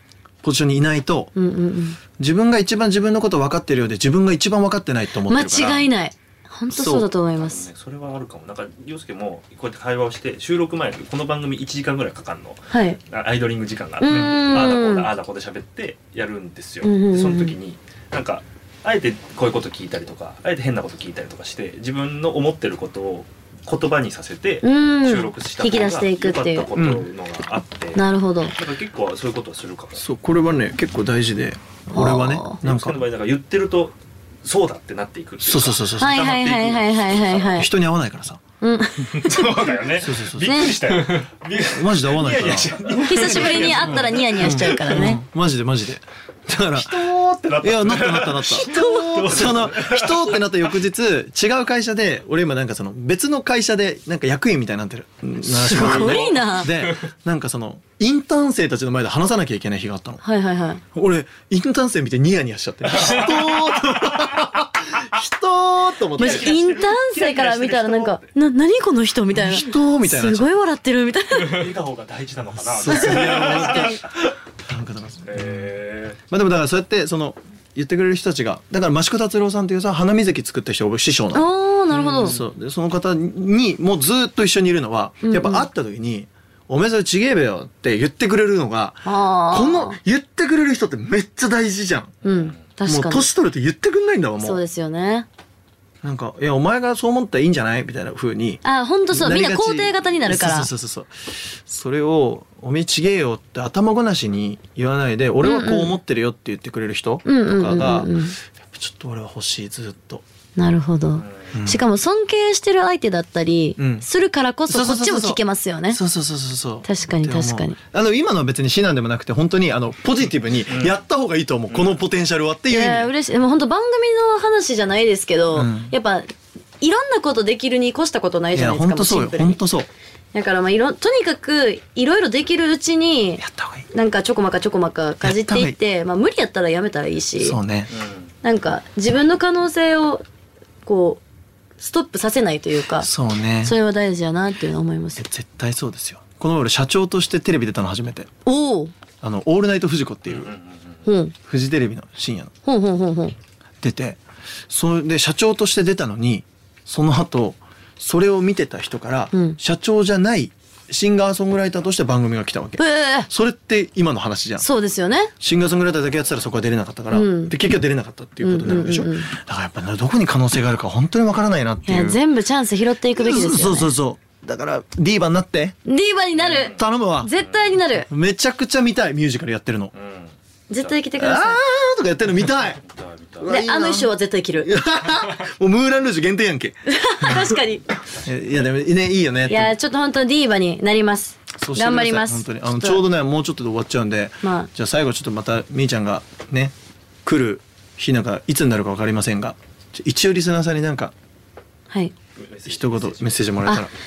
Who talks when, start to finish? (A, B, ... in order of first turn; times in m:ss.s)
0:00.4-0:01.3 A
0:01.4-0:02.0 B
0:02.2-0:05.9 A
0:05.3-0:07.7 B
0:06.7-0:07.1 A
0:07.4-0:30.0 C
0:12.7-0:13.0 B
0:14.0-0:15.1 B
0:14.1-0:14.7 A
0:16.8-0:17.6 B
0:24.6-0:26.7 B
0:26.8-0:27.1 A
0:28.0-0:28.5 B
0:30.0-0:33.0 A
0:31.9-0:32.6 B
0:32.6-0:37.7 C
0:35.4-0:36.3 A
0:36.0-0:37.7 B
0:37.6-0:38.4 A
0:38.6-0:39.5 B
0:39.1-0:45.0 C
0:40.0-0:40.7 A
0:40.4-0:40.8 B
0:41.6-0:47.1 A
0:43.0-0:45.2 B
0:46.7-0:50.5 C
0:47.6-1:00.2 A
0:48.5-0:49.4 B
0:55.4-0:56.7 B
0:55.8-0:56.4 C
1:00.2-1:00.8 B
1:00.9-1:06.6 A
1:06.2-1:08.3 C
1:06.2-1:11.7 B
1:09.3-1:10.5 A
1:11.4-1:14.0 C
1:12.6-1:14.0 A
1:12.9-1:14.0 B
1:14.7-1:15.7 A
1:15.3-1:16.2 C
1:16.3-1:21.5 A
1:21.3-1:22.4 B
1:21.9-1:22.4 C
1:22.2-1:32.2 A
1:25.2-1:25.7 B
1:29.0-1:30.0 B
1:32.2-1:32.6 C
1:32.2-1:33.3 B
1:32.8-1:34.6 A
1:34.4-1:35.3 B
1:36.0-1:50.2 A
1:38.6-1:40.7 B
1:45.4-1:45.9 B
1:47.2-1:48.4 B
1:50.6-1:56.0 B
1:51.2-1:51.5 C
1:51.5-1:51.8 A
1:53.8-1:54.1 A
1:54.7-2:03.1 A
1:56.8-1:57.8 B
2:00.7-2:01.0 C
2:01.7-2:02.0 C
2:02.7-2:09.6 B
2:05.5-2:06.0 A
2:08.5-2:09.9 A
2:10.3-2:17.6 B
2:13.4-2:13.9 A
2:15.2-2:15.8 A
2:17.4-2:17.9 A
2:17.9-2:18.3 C
2:18.4-2:20.2 B
2:20.8-2:21.2 B
2:21.8-2:23.1 B
2:23.0-2:23.8 A
2:23.6-2:25.3 B
2:25.2-2:28.3 A
2:28.4-2:28.9 B
2:29.2-2:30.5 A
2:30.3-2:31.0 C
2:31.0-2:31.4 B
2:31.4-2:32.5 A
2:32.6-2:33.4 B
2:33.8-2:44.7 A
2:39.3-2:39.6 B
2:42.8-2:43.3 B
2:44.6-2:45.3 B
2:45.4-2:52.2 A
2:45.5-2:45.9 C
2:47.1-2:47.5 B
2:48.4-2:49.3 B
2:51.9-2:53.9 B
2:53.1-2:55.8 A
2:55.8-2:58.1 B
2:56.3-2:56.8 C
2:56.5-2:57.3 A
2:57.4-2:57.8 C
2:57.8-2:59.9 A
2:59.9-3:01.0 C
3:00.7-3:01.6 B
3:01.2-3:02.8 A
3:02.8-3:03.5 C
3:03.4-3:07.5 A
3:03.5-3:04.7 B
3:06.9-3:07.9 B
3:08.2-3:09.8 A
3:09.5-3:13.0 B
3:11.6-3:21.1 A
3:14.4-3:14.7 B
3:21.9-3:22.2 B
3:22.4-3:23.8 C
3:22.7-3:23.9 A